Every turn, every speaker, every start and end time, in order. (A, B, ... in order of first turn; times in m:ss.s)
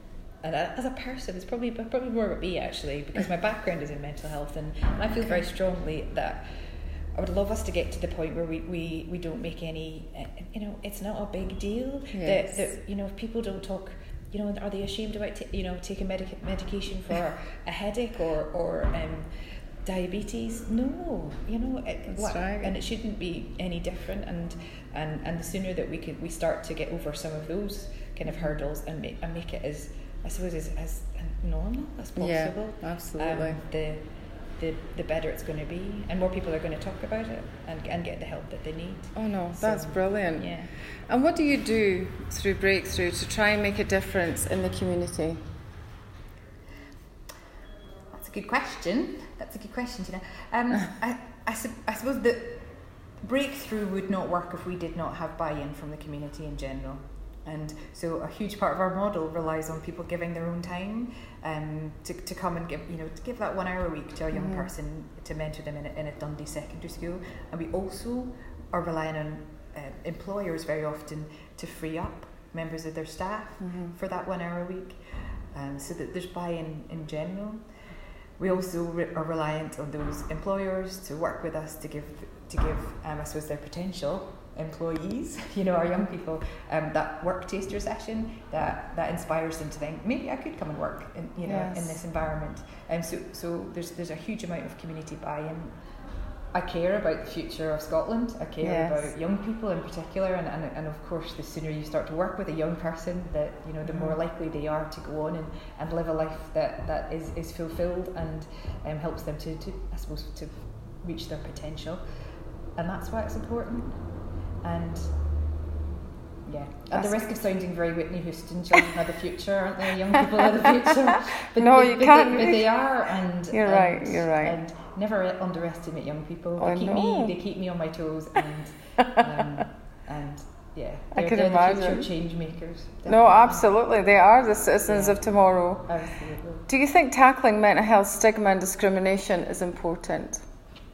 0:00.4-0:40.8 A
0:12.1-0:12.7 B
0:22.1-0:22.8 B
0:28.3-0:28.5 B
0:32.2-0:33.6 B
0:39.2-0:45.5 B
0:48.1-1:17.7 A
1:04.3-1:04.7 B
1:13.6-1:14.0 B
1:18.4-1:35.8 A
1:31.4-1:32.0 B
1:36.5-1:52.0 A
1:38.6-1:39.1 B
1:43.8-1:44.2 B
1:52.8-1:55.6 A
1:56.4-2:13.8 A
1:56.9-1:57.3 B
2:01.6-2:02.6 B
2:03.5-2:04.6 B
2:06.6-2:07.4 B
2:11.1-2:12.1 B
2:13.1-2:15.9 B
2:14.8-2:16.7 A
2:16.7-2:20.4 B